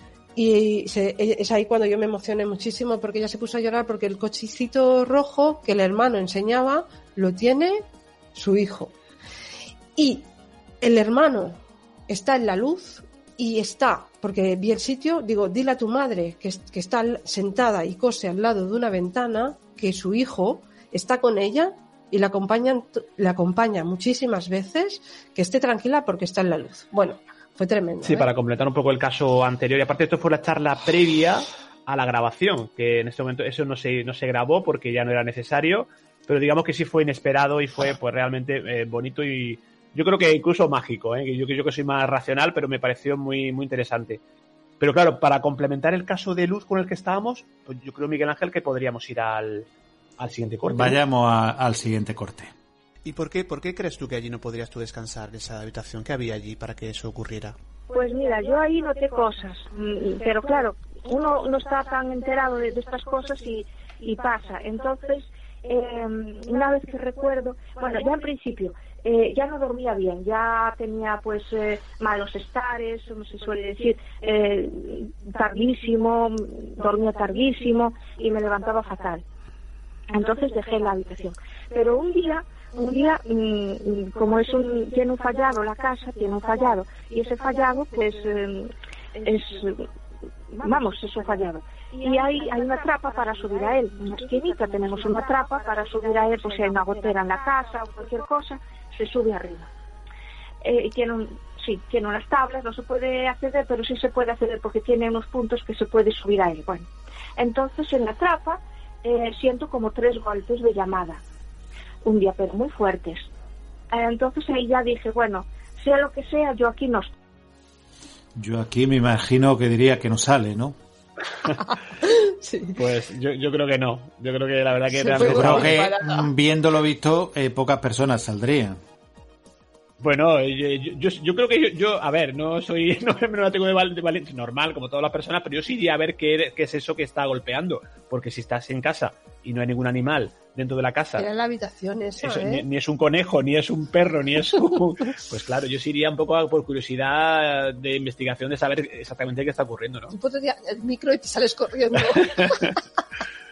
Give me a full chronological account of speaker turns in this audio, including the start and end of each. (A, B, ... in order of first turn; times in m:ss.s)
0:00.4-0:08.9 A
0:10.0-0:10.3 A
0:10.8-0:28.3 A
0:28.0-0:44.2 B
0:44.8-0:49.7 B
0:50.2-0:51.0 B
0:50.7-0:52.5 C
0:53.0-0:57.6 D
0:57.9-1:19.2 E
1:20.1-1:29.8 E
1:30.5-1:39.7 E
1:40.6-1:46.9 E
1:47.4-1:51.2 E
1:52.0-1:53.2 E
1:53.9-1:57.1 E
1:58.4-2:00.8 C
2:01.6-2:02.8 A
2:02.7-2:05.8 B
2:04.9-2:06.3 A
2:05.2-2:08.8 C
2:10.0-2:21.3 B
2:21.2-2:22.6 A
2:22.2-2:30.1 B
2:30.1-2:32.8 A
2:32.2-2:32.7 B